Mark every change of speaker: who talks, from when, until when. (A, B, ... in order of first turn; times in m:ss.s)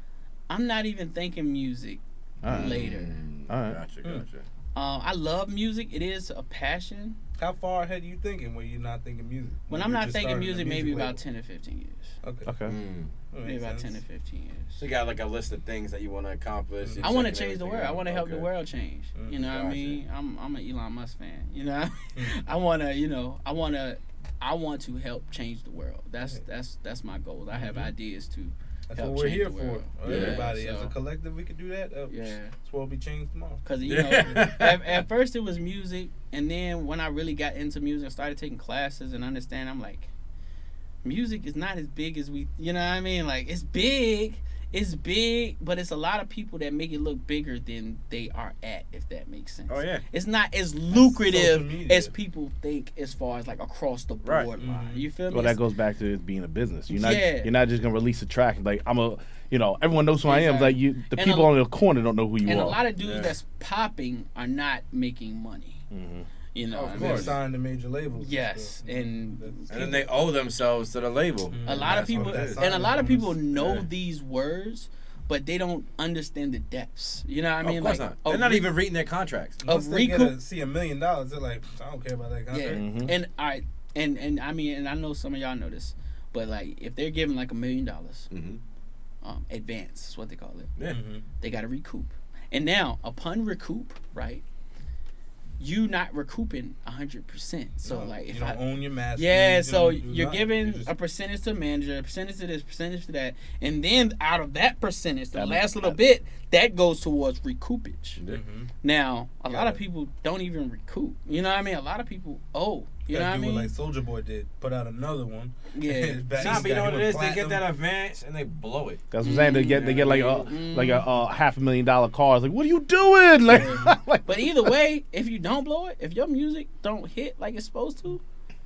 0:00.5-0:03.2 A
0:02.4-0:02.9 B
0:02.5-0:04.4 C
0:03.5-0:03.8 B
0:04.7-0:07.2 A
0:07.4-0:11.2 D
0:09.7-0:12.1 A
0:12.2-0:12.5 D
0:12.4-0:12.8 B
0:12.7-0:13.1 C
0:13.3-0:14.0 D
0:13.4-0:14.8 A
0:14.8-0:18.5 C
0:16.8-0:17.1 D
0:17.0-0:30.9 A
0:19.1-0:19.4 D
0:19.4-0:20.0 C
0:27.5-0:27.9 D
0:28.9-0:33.6 D
0:30.0-0:30.5 C
0:32.1-0:32.5 A
0:33.6-0:40.1 A
0:33.8-0:35.0 C
0:41.0-0:55.6 A
0:49.7-0:50.0 C
0:50.9-0:52.1 D
0:54.2-0:54.5 C
0:54.6-0:55.0 D
0:55.3-1:02.8 B
0:56.9-0:57.5 A
1:00.2-1:01.6 A
1:02.4-1:05.8 A
1:03.0-1:03.3 C
1:05.9-1:06.3 B
1:06.5-1:07.4 A
1:06.7-1:07.4 C
1:06.9-1:10.0 D
1:08.2-1:10.0 A
1:09.7-1:12.6 C
1:11.5-1:13.8 D
1:11.6-1:18.7 A
1:17.6-1:19.6 C
1:19.6-1:22.8 D
1:19.6-1:20.4 A
1:22.5-1:28.3 A
1:22.7-1:23.1 B
1:28.3-1:28.6 C
1:29.2-1:30.7 A
1:30.9-1:31.2 D
1:31.4-1:34.4 A
1:35.6-1:38.6 A
1:37.8-1:40.9 D
1:39.1-1:48.2 A
1:45.3-1:46.0 B
1:48.3-1:48.7 D
1:48.8-1:53.7 A
1:49.5-1:49.8 D
1:53.0-1:57.6 D
1:55.7-1:56.8 A
1:56.4-1:59.0 C
1:59.1-2:04.7 B
1:59.2-2:01.0 A
1:59.6-2:00.8 C
2:03.5-2:08.2 A
2:03.5-2:03.9 D